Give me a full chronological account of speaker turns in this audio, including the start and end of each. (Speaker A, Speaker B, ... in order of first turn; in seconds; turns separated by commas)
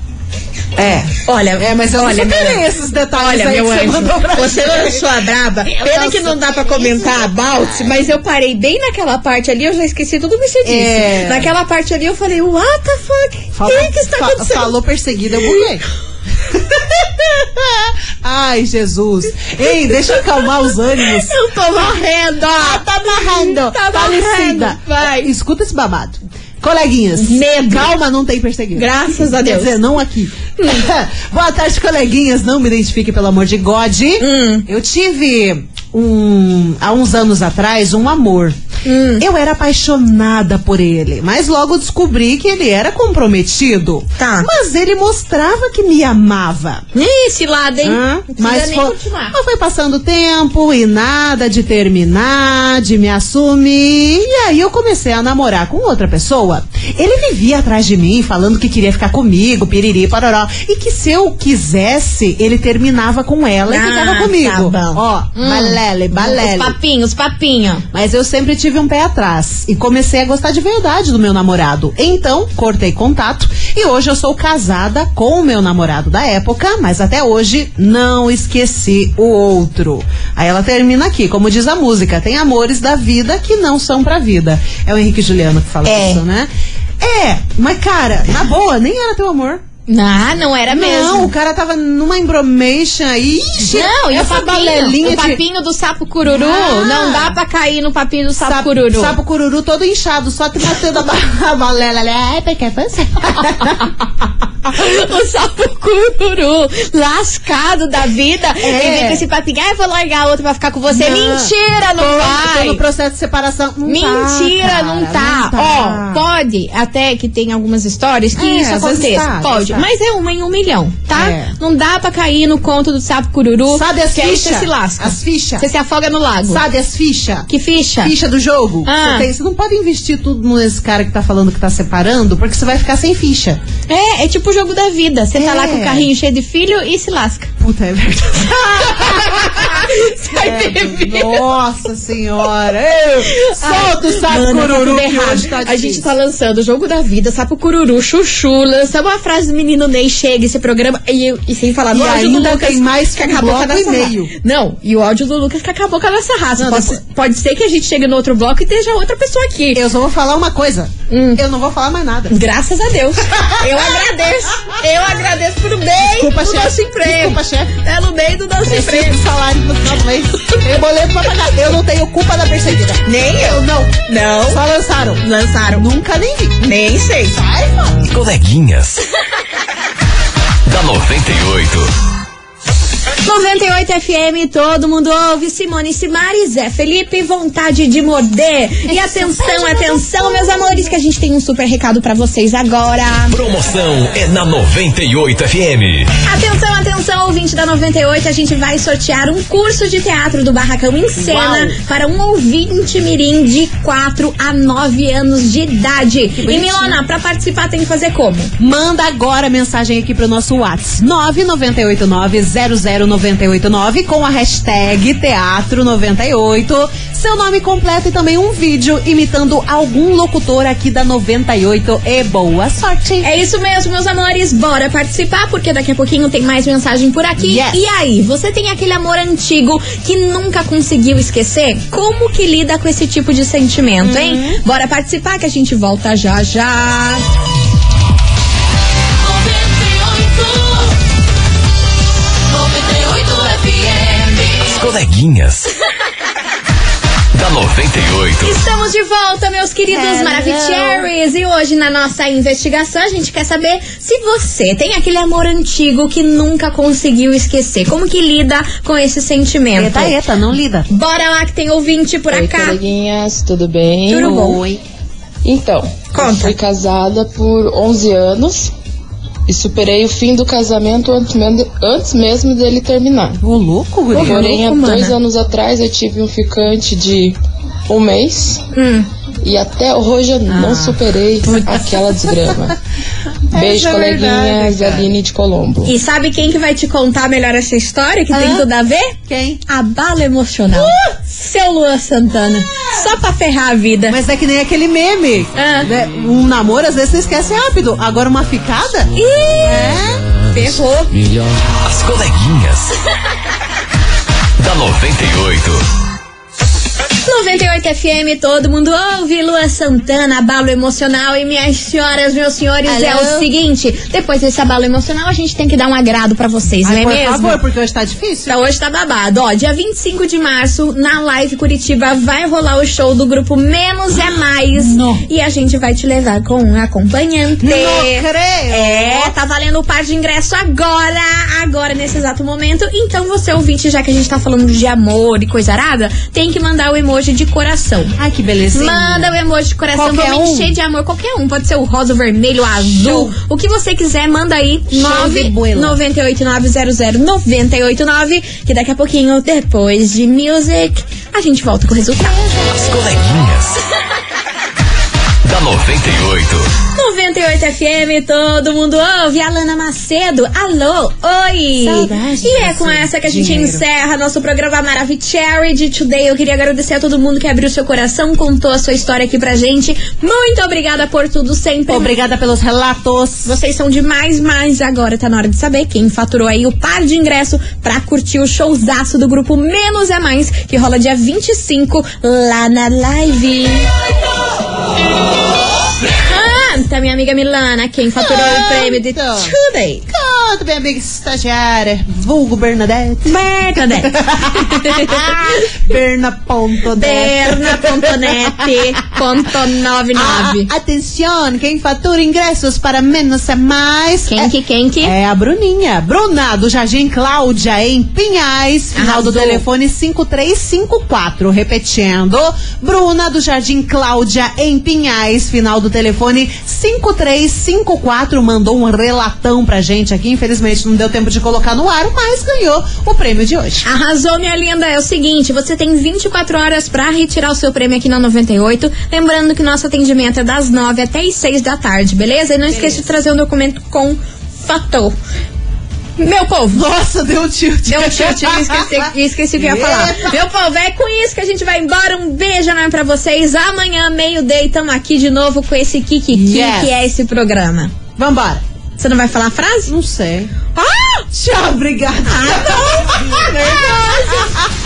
Speaker A: 0.8-5.1, Speaker B: 1.2-2.6, Speaker B: 3.1-14.7, Speaker A: 5.6-8.0, Speaker A: 10.6-11.5, Speaker A: 13.5-15.8, Speaker A: 16.5-21.3, Speaker B: 21.0-25.3, Speaker A: 22.5-38.5, Speaker B: 27.2-27.9, Speaker B: 28.7-29.8, Speaker B: 30.6-30.8, Speaker B: 34.2-34.6, Speaker B: 38.8-39.2, Speaker A: 39.2-46.8, Speaker B: 44.2-44.5, Speaker B: 46.9-49.4, Speaker A: 47.8-66.8, Speaker B: 63.7-67.8, Speaker A: 67.9-89.6, Speaker B: 85.8-86.2, Speaker B: 89.9-91.3, Speaker A: 90.7-95.4, Speaker B: 93.7-99.2, Speaker A: 96.2-97.4, Speaker A: 98.4-103.9, Speaker B: 104.7-112.8, Speaker A: 108.6-109.2, Speaker A: 110.9-116.2, Speaker B: 113.8-126.6, Speaker A: 118.3-119.9, Speaker A: 121.1-121.5, Speaker A: 123.7-125.7, Speaker A: 126.5-127.5, Speaker B: 127.5-128.1, Speaker A: 128.0-133.6, Speaker B: 128.8-129.3, Speaker B: 133.9-137.5, Speaker A: 135.3-136.1, Speaker A: 137.6-146.1, Speaker B: 138.9-141.4, Speaker B: 143.3-159.8, Speaker A: 151.9-154.3, Speaker A: 156.6-157.0, Speaker A: 159.7-162.3, Speaker B: 161.1-161.4, Speaker B: 162.3-169.2, Speaker A: 163.3-163.9, Speaker A: 166.0-167.7, Speaker A: 168.6-176.7, Speaker B: 173.0-174.6, Speaker B: 175.2-175.9, Speaker B: 176.6-177.4, Speaker A: 177.2-178.1, Speaker C: 178.1-179.0, Speaker C: 180.7-181.9, Speaker B: 183.2-193.3, Speaker A: 188.9-190.8, Speaker C: 193.3-196.1, Speaker B: 196.2-208.5, Speaker A: 201.2-201.8, Speaker A: 206.3-207.0, Speaker A: 208.6-223.3, Speaker B: 223.2-237.2, Speaker A: 227.4-227.8, Speaker A: 234.0-234.6, Speaker C: 244.5-245.7, Speaker C: 247.3-248.6, Speaker B: 248.4-260.1, Speaker A: 249.9-251.1, Speaker A: 259.7-260.9, Speaker B: 260.9-262.8, Speaker D: 262.3-264.6, Speaker B: 264.1-264.6, Speaker A: 264.2-264.8, Speaker D: 265.4-268.7, Speaker B: 266.1-266.5, Speaker D: 269.5-273.4, Speaker A: 273.4-274.5, Speaker D: 274.1-278.6, Speaker B: 274.1-275.1, Speaker B: 278.7-279.1, Speaker D: 279.4-282.8, Speaker A: 280.5-282.4, Speaker B: 281.4-281.8, Speaker A: 283.5-285.1, Speaker D: 283.5-285.9, Speaker B: 285.8-289.1, Speaker A: 288.3-288.7, Speaker A: 289.2-289.6, Speaker B: 289.7-294.2, Speaker A: 290.7-291.1, Speaker A: 294.1-300.3, Speaker B: 295.6-295.9, Speaker B: 299.1-301.2, Speaker C: 301.8-302.9, Speaker C: 304.6-305.8, Speaker B: 307.2-317.6, Speaker A: 312.9-313.5, Speaker A: 316.8-318.6, Speaker B: 318.4-338.1, Speaker A: 324.8-325.2, Speaker A: 327.6-329.3, Speaker A: 338.2-339.3, Speaker B: 338.7-352.5, Speaker A: 339.9-340.7, Speaker A: 342.9-343.3, Speaker A: 344.9-346.0, Speaker C: 352.7-353.8, Speaker C: 355.4-356.7, Speaker B: 356.9-372.1, Speaker A: 361.8-363.8, Speaker A: 371.9-373.5, Speaker B: 373.4-383.9, Speaker B: 386.2-390.1, Speaker A: 388.1-389.5, Speaker A: 390.1-398.8, Speaker B: 393.2-395.6, Speaker B: 397.0-400.7, Speaker A: 400.1-423.9, Speaker B: 404.3-405.1, Speaker B: 408.9-409.6, Speaker B: 423.9-435.1, Speaker A: 432.7-433.0, Speaker B: 436.2-436.8, Speaker A: 436.7-440.4, Speaker B: 437.9-447.9, Speaker A: 446.3-446.9, Speaker A: 448.2-448.6, Speaker B: 449.0-449.9, Speaker A: 449.9-450.5, Speaker B: 450.7-451.2, Speaker A: 451.3-454.7, Speaker B: 452.2-454.5